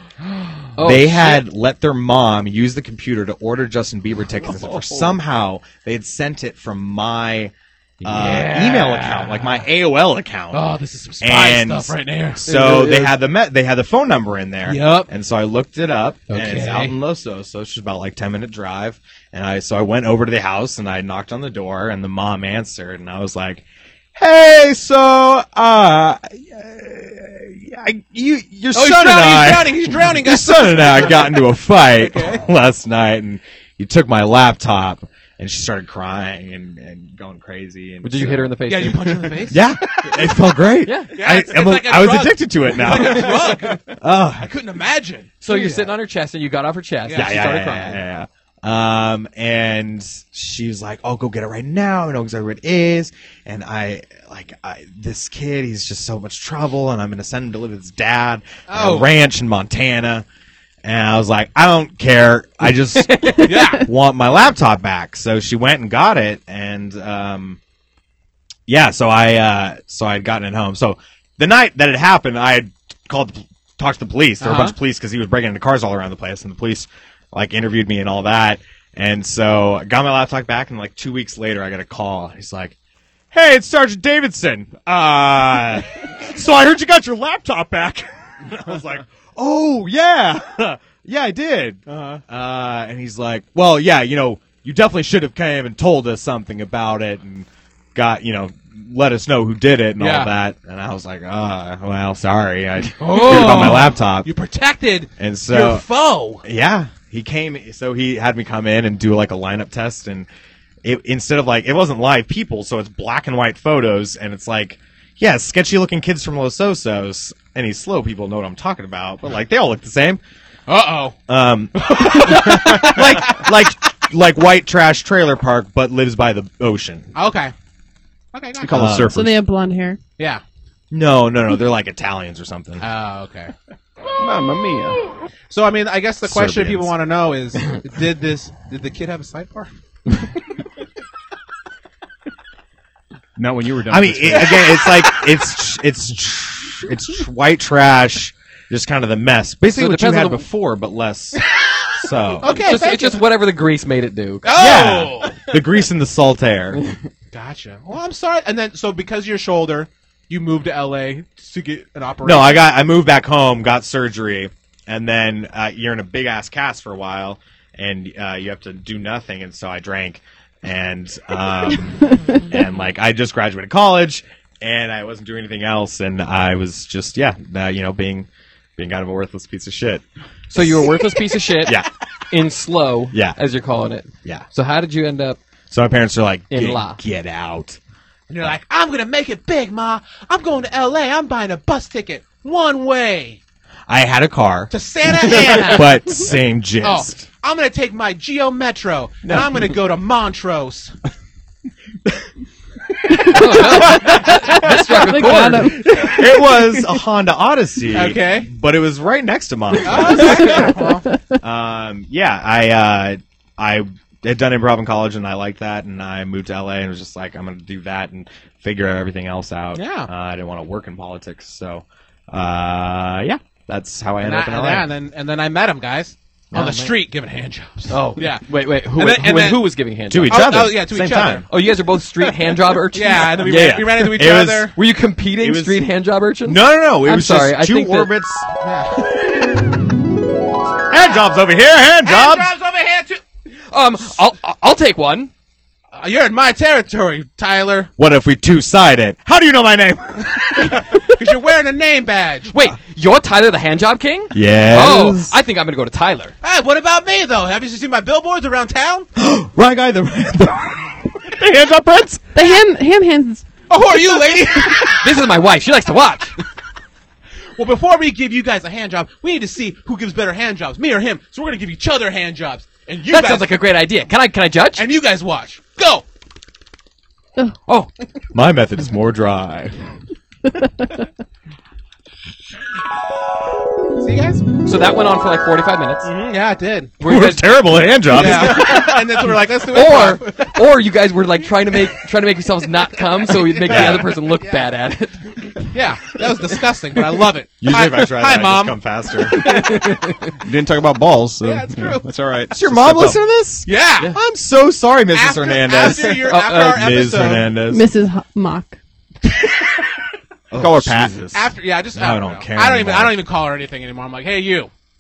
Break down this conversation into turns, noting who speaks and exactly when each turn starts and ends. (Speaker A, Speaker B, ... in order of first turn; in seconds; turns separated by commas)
Speaker A: 0.7-1.4, Speaker B: 0.8-10.7, Speaker C: 8.1-9.6, Speaker C: 10.5-12.5, Speaker B: 11.2-38.5, Speaker A: 12.5-13.1, Speaker C: 14.7-15.1, Speaker C: 16.3-16.9, Speaker C: 28.7-32.4, Speaker A: 38.0-39.4, Speaker C: 38.7-39.6, Speaker B: 39.5-44.5, Speaker A: 40.8-41.1, Speaker C: 41.1-43.8, Speaker C: 44.4-45.9, Speaker A: 45.4-48.0, Speaker C: 47.0-47.4, Speaker B: 47.1-60.2, Speaker C: 58.7-59.1, Speaker B: 60.8-67.6, Speaker A: 62.9-63.6, Speaker C: 63.4-63.9, Speaker B: 68.7-82.7, Speaker C: 74.4-74.8, Speaker B: 83.3-104.3, Speaker C: 91.9-92.2, Speaker C: 100.0-100.3, Speaker C: 103.0-106.4, Speaker A: 103.2-103.8, Speaker B: 105.2-105.8, Speaker B: 106.4-110.3, Speaker B: 110.8-120.2, Speaker C: 120.7-121.2, Speaker B: 121.3-127.1, Speaker C: 121.8-123.5, Speaker C: 127.1-127.5, Speaker C: 128.3-128.8, Speaker D: 128.6-129.3, Speaker B: 128.7-129.3, Speaker E: 129.1-130.0, Speaker B: 130.9-132.8, Speaker C: 132.8-133.5, Speaker D: 134.2-135.0, Speaker C: 135.5-139.7, Speaker B: 136.2-136.9, Speaker D: 143.3-144.9, Speaker B: 143.9-152.6, Speaker A: 149.7-150.4, Speaker C: 152.4-153.2, Speaker A: 152.5-154.5, Speaker C: 154.4-155.4, Speaker B: 154.5-156.8, Speaker C: 157.3-162.7, Speaker B: 162.2-180.0, Speaker A: 180.5-185.4, Speaker B: 180.6-180.9, Speaker B: 181.6-181.9, Speaker B: 183.1-183.4, Speaker B: 185.7-187.8, Speaker A: 186.5-187.0, Speaker C: 188.3-193.4, Speaker B: 193.9-197.3, Speaker C: 194.7-196.1, Speaker C: 196.8-200.9, Speaker A: 199.2-199.7, Speaker E: 203.1-206.2, Speaker A: 203.2-206.0, Speaker B: 205.2-210.7, Speaker C: 207.9-208.5, Speaker C: 209.8-211.1, Speaker B: 211.4-224.9, Speaker C: 219.7-220.1, Speaker C: 224.2-229.7, Speaker A: 226.5-226.9, Speaker A: 227.9-230.8, Speaker B: 230.1-231.4, Speaker C: 230.3-231.4, Speaker A: 231.4-233.8, Speaker C: 232.9-234.7, Speaker B: 233.2-234.7, Speaker A: 234.7-238.1, Speaker B: 235.4-235.8, Speaker B: 236.4-238.5, Speaker C: 238.6-239.1, Speaker B: 240.9-242.5, Speaker C: 242.0-243.2, Speaker A: 243.7-245.3, Speaker C: 245.9-247.9, Speaker B: 248.0-251.0, Speaker C: 251.1-252.6, Speaker A: 252.5-256.3, Speaker B: 254.3-255.3, Speaker C: 256.4-259.1, Speaker B: 259.1-262.2, Speaker E: 262.3-263.4, Speaker C: 263.7-265.0, Speaker A: 264.8-266.4, Speaker C: 267.6-273.6, Speaker A: 273.1-274.9, Speaker C: 274.8-276.1, Speaker B: 278.3-279.8, Speaker C: 284.0-284.4, Speaker A: 284.6-286.1, Speaker C: 286.0-286.9, Speaker A: 287.0-288.8, Speaker B: 287.0-289.0, Speaker C: 288.1-290.5, Speaker A: 289.7-295.6, Speaker C: 293.3-294.7, Speaker B: 293.7-294.1, Speaker C: 295.7-298.8, Speaker B: 297.6-299.5, Speaker A: 299.3-300.3, Speaker D: 300.4-303.2, Speaker C: 301.4-302.1, Speaker B: 302.5-307.9, Speaker C: 303.6-304.1, Speaker C: 305.1-307.5, Speaker A: 306.0-306.9, Speaker E: 307.7-308.8, Speaker B: 310.5-313.2, Speaker D: 310.6-311.2, Speaker C: 311.3-314.7